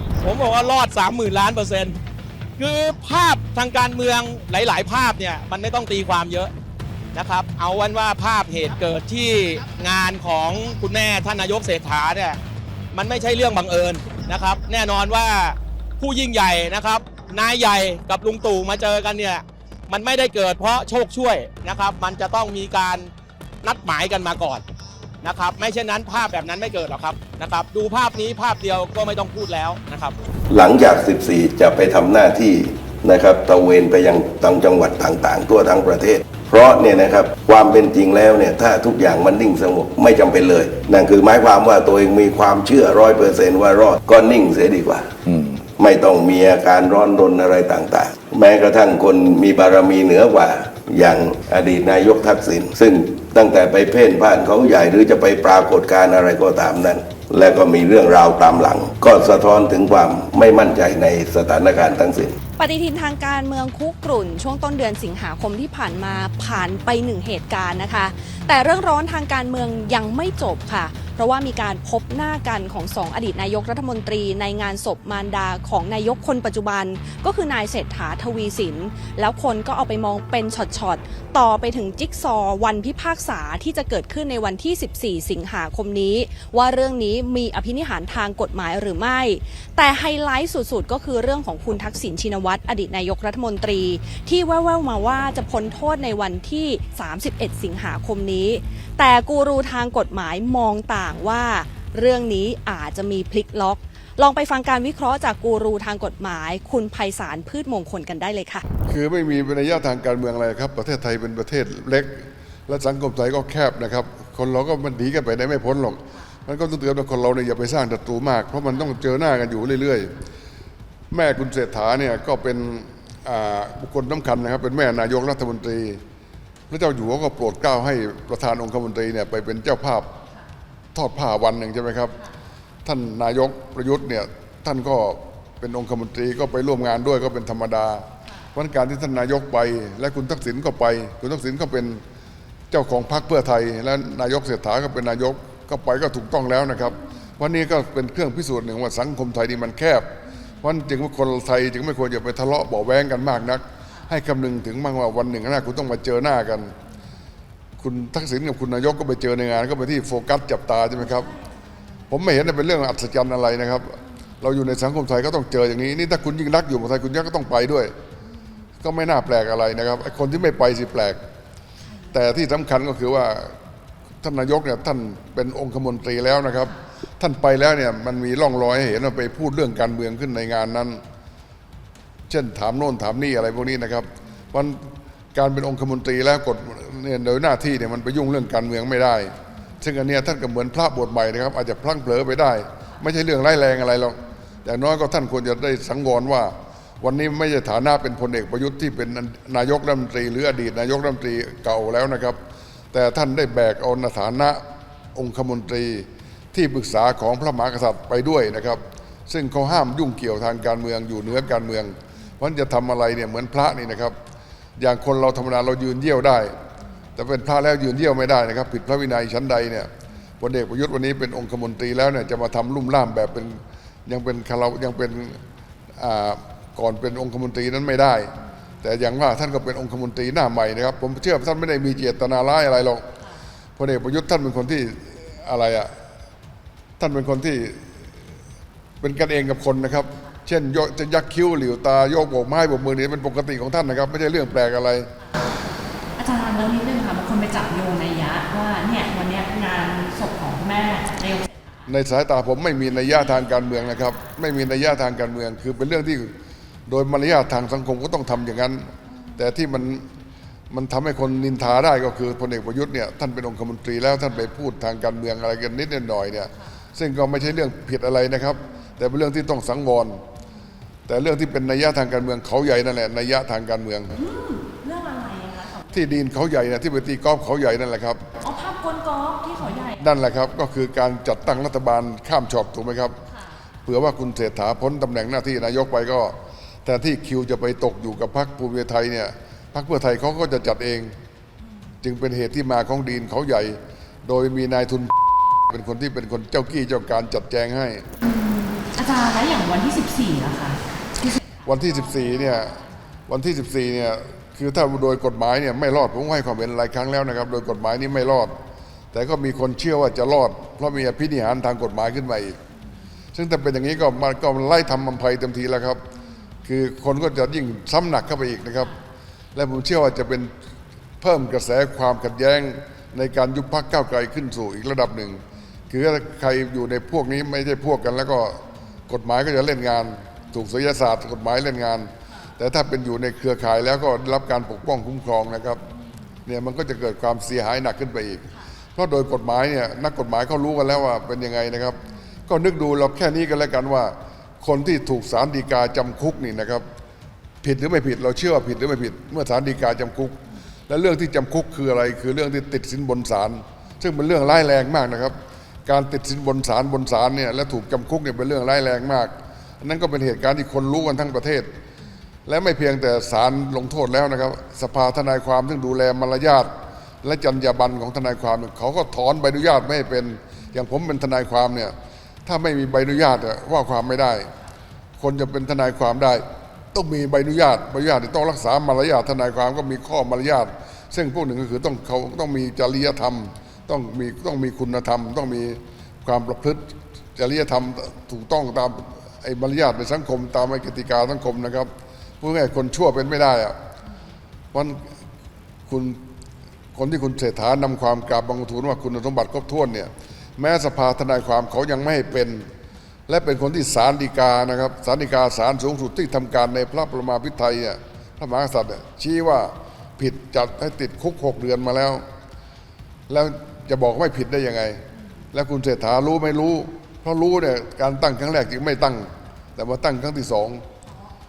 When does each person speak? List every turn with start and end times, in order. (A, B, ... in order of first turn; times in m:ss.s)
0:00.2-0:02.0 A
0:02.6-0:06.5 A
0:07.1-0:12.4 A
0:12.9-0:23.1 A
0:23.6-0:24.6 A
0:25.2-0:30.1 A
0:30.5-1:02.4 B
1:02.6-1:48.6 C
1:48.9-2:00.1 D
2:01.1-2:06.0 D
2:06.7-2:10.1 D
2:10.9-2:12.2 D
2:12.8-2:22.0 D
2:22.7-2:36.7 D
2:37.8-2:41.3 D
2:42.1-2:47.9 D
2:48.8-2:51.2 D
2:52.1-2:53.6 D
2:54.2-3:01.0 D
3:02.3-3:22.4 D
3:22.9-3:24.6 D
3:25.1-3:34.2 D
3:34.8-3:36.6 D
3:37.2-3:45.4 D
3:46.0-3:53.1 D
3:53.8-3:55.9 D
3:57.0-3:57.8 D
3:59.0-4:05.1 D
4:06.2-4:11.6 C
4:06.2-4:09.9 E
4:11.9-4:16.3 D
4:16.9-4:20.1 D
4:20.7-4:30.2 D
4:31.1-4:34.1 D
4:34.1-4:36.0 C
4:34.8-4:35.4 E
4:35.9-4:38.2 D
4:38.4-4:40.0 C
4:38.8-4:39.3 E
4:39.9-4:43.2 D
4:43.8-4:51.1 D
4:52.0-4:55.1 D
4:55.7-4:58.0 D
4:58.2-5:00.8 E
4:58.2-4:59.4 C
4:59.9-5:00.7 C
5:01.4-5:01.6 E
5:01.6-5:08.6 D
5:09.1-5:12.6 D
5:13.3-5:16.0 D
5:16.6-5:18.9 D
5:19.6-5:20.5 D
5:21.2-5:35.8 D
5:36.4-5:46.8 D
5:47.6-6:01.7 D
6:02.5-6:11.9 D
6:12.4-6:14.5 D
6:15.2-6:31.9 D
6:32.4-6:33.8 D
6:34.7-6:35.1 D
6:35.9-6:36.2 D
6:36.9-6:42.7 D
6:43.3-6:52.2 D
6:53.3-6:55.0 D
6:55.5-7:00.8 D